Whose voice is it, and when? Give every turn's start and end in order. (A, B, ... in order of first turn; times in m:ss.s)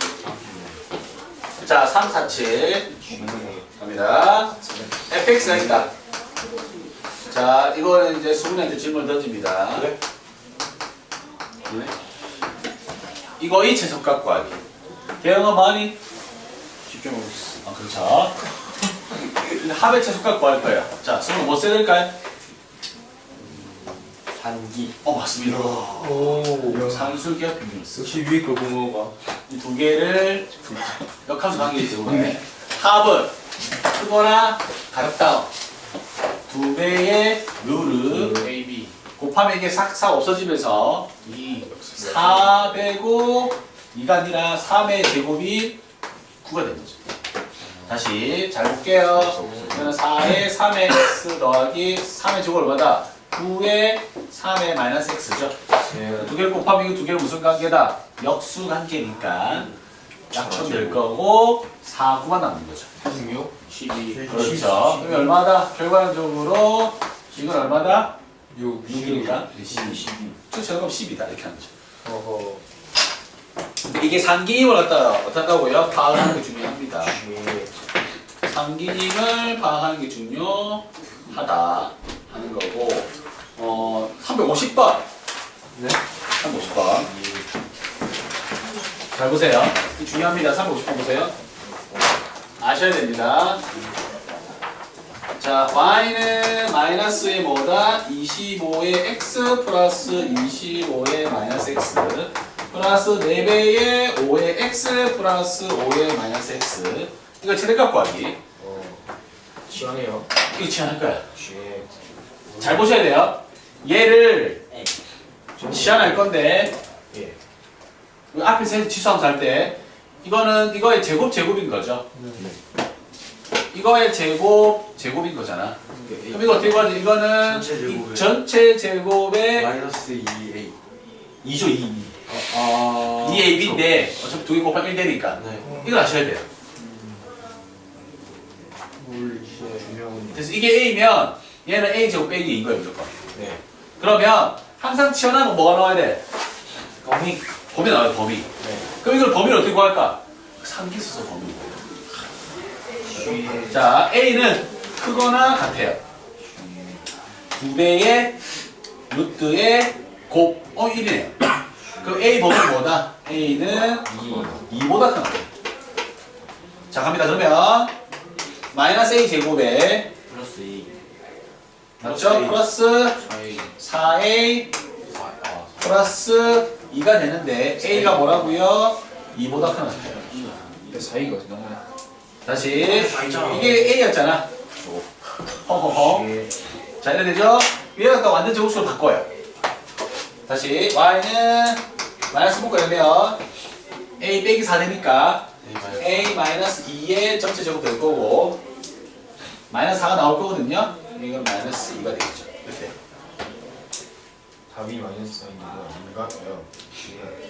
0:00.3-0:00.7 A
0:01.6-0:02.9 B
0:03.0-0:03.7 C
0:03.8-0:05.9 B
0:04.6-0:04.9 C
0:07.3-0:09.9 B
0:13.4-0:14.6 B
0:15.2-0:16.0 B
0:16.9-0:17.6 A
0:17.6-0:18.4 B
0:19.4-0:22.2 B
0:24.4-0:24.9 A
0:25.0-0:28.2 B
0:25.7-0:27.2 C
0:28.0-0:29.1 C
0:29.5-0:33.3 B
0:32.0-0:32.3 C
0:33.8-0:35.5 B
0:36.5-0:38.4 B
0:38.1-0:38.5 C
0:38.3-0:38.9 A
0:39.2-0:41.2 B
0:41.3-0:41.7 A
0:41.8-0:42.5 C
0:41.9-0:45.8 B
0:46.4-0:47.0 B
0:47.8-0:55.6 B
0:49.2-0:49.9 A
0:49.3-0:49.9 C
0:55.9-0:56.4 C
0:56.2-0:59.7 B
1:00.3-1:02.9 B
1:00.4-1:01.0 A
1:03.0-1:03.5 C
1:03.7-1:04.9 A
1:04.1-1:05.3 C
1:04.2-1:08.2 B
1:08.5-1:10.4 C
1:08.8-1:11.7 B
1:12.0-1:12.6 C
1:13.8-1:17.2 B
1:17.0-1:17.7 C
1:18.4-1:25.0 B
1:26.3-1:27.1 B
1:29.1-1:31.3 B
1:32.6-1:33.6 B
1:35.4-1:48.4 B
1:48.6-1:49.1 C
1:49.7-1:50.3 C
1:50.5-1:51.2 B
1:51.3-1:51.9 C
1:52.6-1:54.6 B
1:55.6-1:56.2 C
1:55.6-1:56.8 B
1:57.1-1:57.4 C
1:58.3-2:02.1 B
2:02.1-2:02.5 C
2:03.7-2:05.8 B
2:05.9-2:06.5 C
2:06.1-2:06.7 A
2:06.3-2:09.7 B
2:07.4-2:08.4 A
2:09.5-2:10.8 A
2:11.4-2:12.1 B
2:12.3-2:13.9 A
2:13.1-2:16.5 B
2:15.4-2:15.8 A
2:15.6-2:15.9 C
2:16.8-2:17.2 C
2:19.0-2:20.4 C
2:20.3-2:23.1 B
2:23.3-2:23.6 C
2:24.0-2:26.2 B
2:27.0-2:27.4 C
2:27.7-2:31.8 B
2:28.6-2:28.9 C
2:33.1-2:33.9 C
2:33.2-2:33.6 A
2:33.6-2:36.0 B
2:36.6-2:37.0 C
2:37.5-2:38.4 B
2:39.1-2:41.4 B
2:42.0-2:45.5 B
2:44.0-2:44.7 C
2:46.9-2:47.9 B
2:48.7-2:50.1 B
2:50.3-2:51.0 A
2:52.0-2:52.6 A
2:52.0-2:53.2 B
2:53.2-2:53.7 A
2:53.8-2:54.7 B
2:55.1-2:56.0 A
2:55.8-3:00.6 B
3:00.9-3:01.8 C
3:02.4-3:05.0 B
3:02.8-3:03.8 A
3:03.0-3:03.9 C
3:05.6-3:06.3 B
3:06.0-3:06.5 C
3:07.0-3:09.3 B
3:10.5-3:13.4 B
3:14.2-3:18.6 B
3:15.6-3:16.3 A
3:19.7-3:22.9 B
3:24.7-3:27.4 C